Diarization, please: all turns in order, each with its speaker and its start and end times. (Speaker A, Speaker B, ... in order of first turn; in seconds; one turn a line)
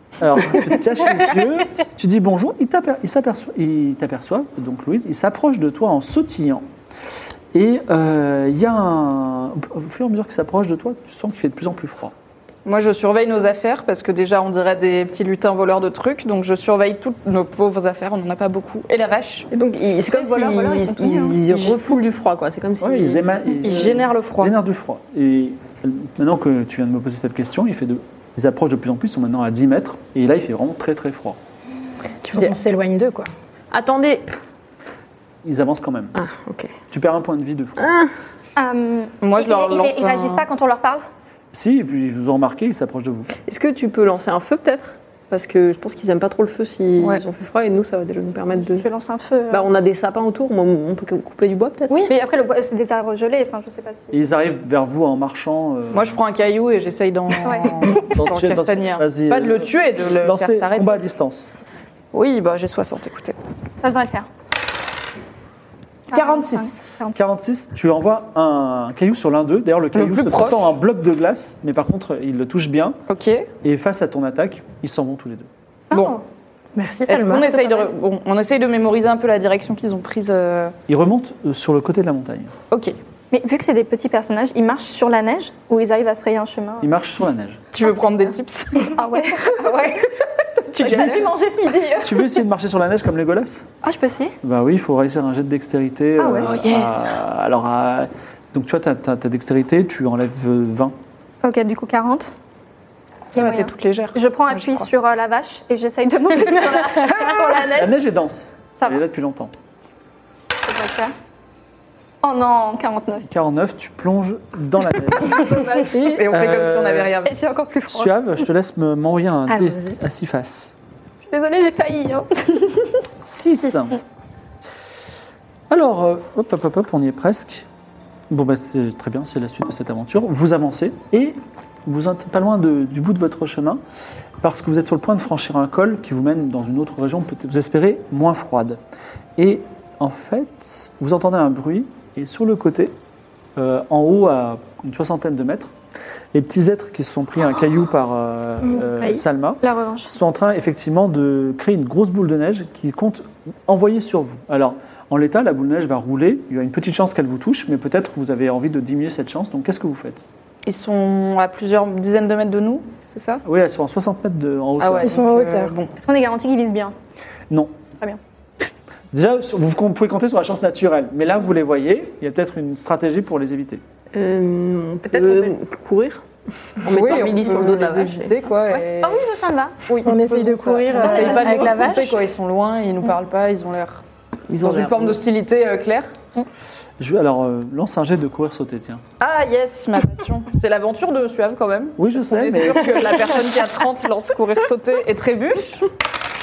Speaker A: 0.2-6.7
Speaker A: 7.5-12.1
Speaker B: 12.7-19.5
Speaker C: 19.5-23.9
Speaker D: 20.1-21.4
Speaker B: 21.5-21.8
Speaker A: 22.8-31.4
Speaker B: 23.6-24.6
Speaker E: 32.2-33.3
Speaker C: 33.7-34.3
Speaker A: 35.4-36.2
Speaker C: 36.1-36.8
Speaker A: 36.9-37.9
Speaker C: 37.8-38.1
Speaker D: 38.6-41.0
Speaker B: 39.2-40.5
Speaker A: 41.5-43.3
Speaker C: 43.5-48.9
Speaker D: 48.7-49.7
Speaker C: 49.5-52.0
Speaker D: 52.0-54.2
Speaker A: 54.1-56.2
Speaker B: 55.9-61.0
Speaker D: 57.4-57.7
Speaker A: 57.9-61.5
Speaker B: 62.1-63.4
Speaker D: 63.8-64.3
Speaker D: 66.1-67.3
Speaker B: 66.2-66.7
Speaker A: 67.2-73.0
Speaker B: 70.0-70.7
Speaker B: 73.1-73.5
Speaker A: 73.6-75.5
Speaker D: 75.9-76.2
Speaker B: 75.9-76.2
Speaker E: 76.8-77.9
Speaker B: 77.1-80.8
Speaker A: 80.9-82.5
Speaker B: 82.7-83.0
Speaker D: 83.3-86.9
Speaker A: 86.8-87.6
Speaker B: 87.7-90.1
Speaker D: 88.8-90.1
Speaker B: 90.7-91.3
Speaker D: 90.8-92.4
Speaker A: 92.0-93.7
Speaker D: 93.8-94.4
Speaker A: 94.4-100.9
Speaker D: 96.2-96.8
Speaker D: 101.4-102.3
Speaker B: 103.3-104.9
Speaker D: 103.3-108.0
Speaker A: 107.7-109.5
Speaker D: 110.6-111.1
Speaker D: 112.2-113.3
Speaker A: 113.3-117.1
Speaker B: 115.4-117.3
Speaker D: 117.2-118.2
Speaker A: 117.9-120.7
Speaker E: 119.5-119.9
Speaker D: 121.3-123.0
Speaker A: 123.2-124.0
Speaker A: 125.7-127.7
Speaker A: 128.3-133.8
Speaker A: 134.4-138.8
Speaker A: 139.4-142.9
Speaker A: 143.6-145.7
Speaker A: 146.3-160.2
Speaker D: 149.6-150.1
Speaker B: 160.7-163.4
Speaker A: 163.4-165.2
Speaker B: 164.8-165.9
Speaker E: 165.0-165.7
Speaker D: 166.0-166.9
Speaker A: 169.1-173.8
Speaker C: 174.1-176.2
Speaker B: 175.2-175.5
Speaker C: 176.8-178.4
Speaker B: 176.9-179.2
Speaker D: 178.7-179.8
Speaker B: 179.9-184.0
Speaker E: 180.1-182.2
Speaker C: 181.0-181.6
Speaker D: 181.2-181.6
Speaker C: 184.5-185.2
Speaker B: 184.6-186.2
Speaker A: 187.0-189.0
Speaker B: 189.2-195.9
Speaker A: 192.0-193.3